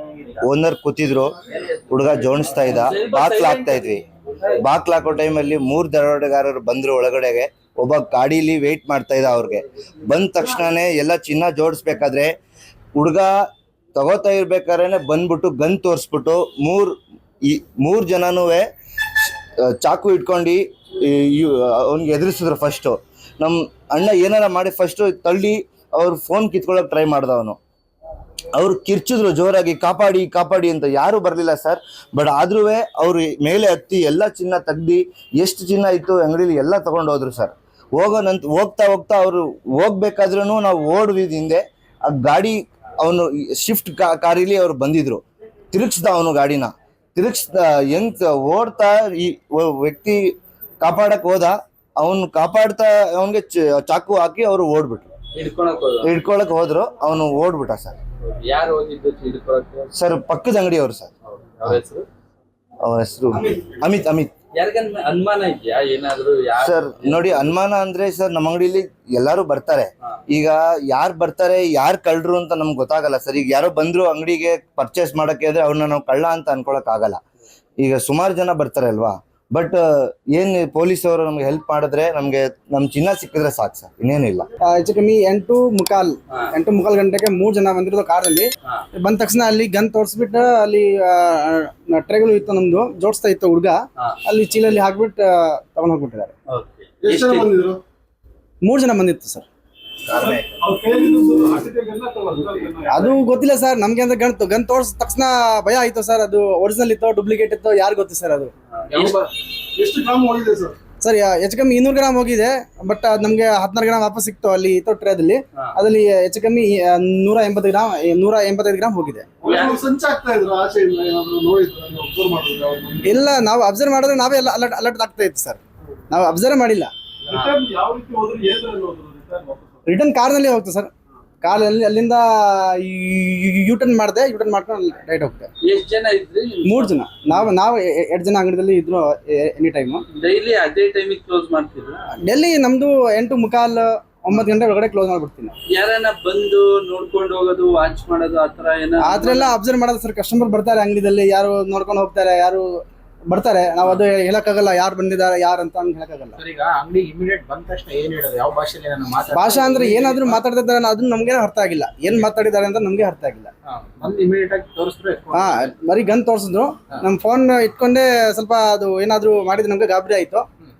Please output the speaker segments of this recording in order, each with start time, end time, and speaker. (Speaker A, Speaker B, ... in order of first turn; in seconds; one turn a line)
Speaker A: 0.4-1.3
Speaker B: 1.5-1.8
Speaker A: 1.9-4.0
Speaker B: 2.4-4.6
Speaker A: 4.6-12.3
Speaker A: 12.9-13.3
Speaker A: 13.9-18.7
Speaker A: 19.2-27.6
Speaker A: 28.5-50.2
Speaker A: 50.8-55.1
Speaker B: 55.3-56.1
Speaker A: 56.0-58.0
Speaker B: 58.2-59.9
Speaker A: 59.9-61.1
Speaker B: 61.2-62.0
Speaker A: 62.8-64.3
Speaker B: 64.5-67.5
Speaker A: 66.6-77.2
Speaker A: 77.8-84.5
Speaker C: 84.6-96.3
Speaker B: 96.5-97.5
Speaker D: 97.0-97.8
Speaker C: 98.6-99.5
Speaker A: 100.0-100.5
Speaker D: 100.2-103.1
Speaker C: 102.9-108.5
Speaker B: 108.7-109.2
Speaker E: 108.9-109.3
Speaker D: 109.8-110.8
Speaker C: 111.0-119.3
Speaker D: 119.4-123.2
Speaker B: 119.4-119.8
Speaker C: 123.0-125.6
Speaker C: 126.1-126.9
Speaker B: 127.3-127.6
Speaker D: 127.3-129.8
Speaker C: 129.9-130.9
Speaker C: 131.4-135.5
Speaker B: 135.6-136.9
Speaker C: 136.6-140.0
Speaker B: 140.1-142.1
Speaker C: 142.2-145.6
Speaker B: 145.7-149.6
Speaker C: 149.0-152.6
Speaker C: 153.3-156.4
Speaker E: 156.4-160.4
Speaker C: 159.3-163.5
Speaker E: 163.7-165.7
Speaker C: 165.3-170.4